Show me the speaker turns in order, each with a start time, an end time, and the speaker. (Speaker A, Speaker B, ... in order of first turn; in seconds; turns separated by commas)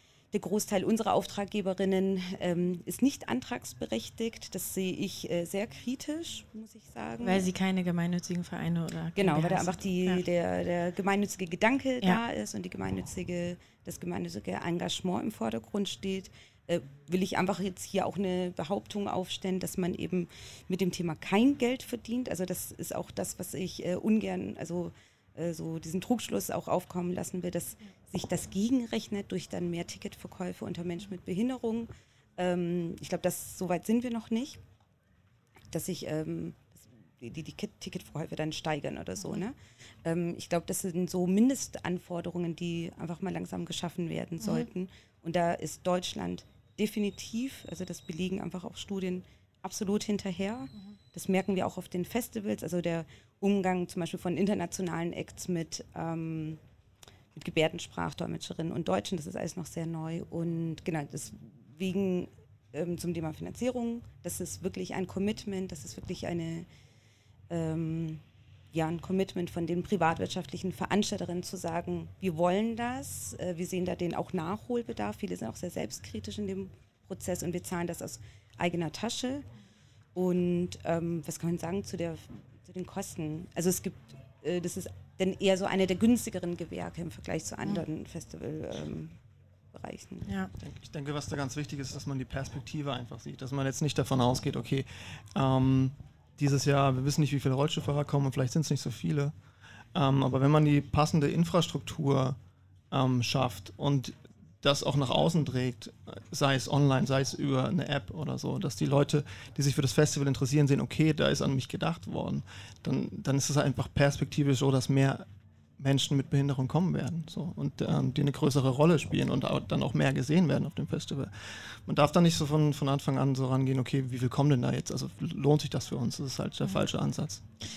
Speaker A: 0.3-7.5, Speaker B: 7.2-10.2, Speaker A: 9.2-34.6, Speaker A: 35.7-56.6, Speaker B: 44.4-44.7, Speaker A: 57.3-66.7, Speaker A: 67.5-79.5, Speaker A: 80.1-89.2, Speaker A: 89.7-90.3, Speaker B: 90.2-90.5, Speaker C: 90.6-99.3, Speaker C: 99.9-102.4, Speaker C: 102.9-115.2, Speaker C: 115.8-127.4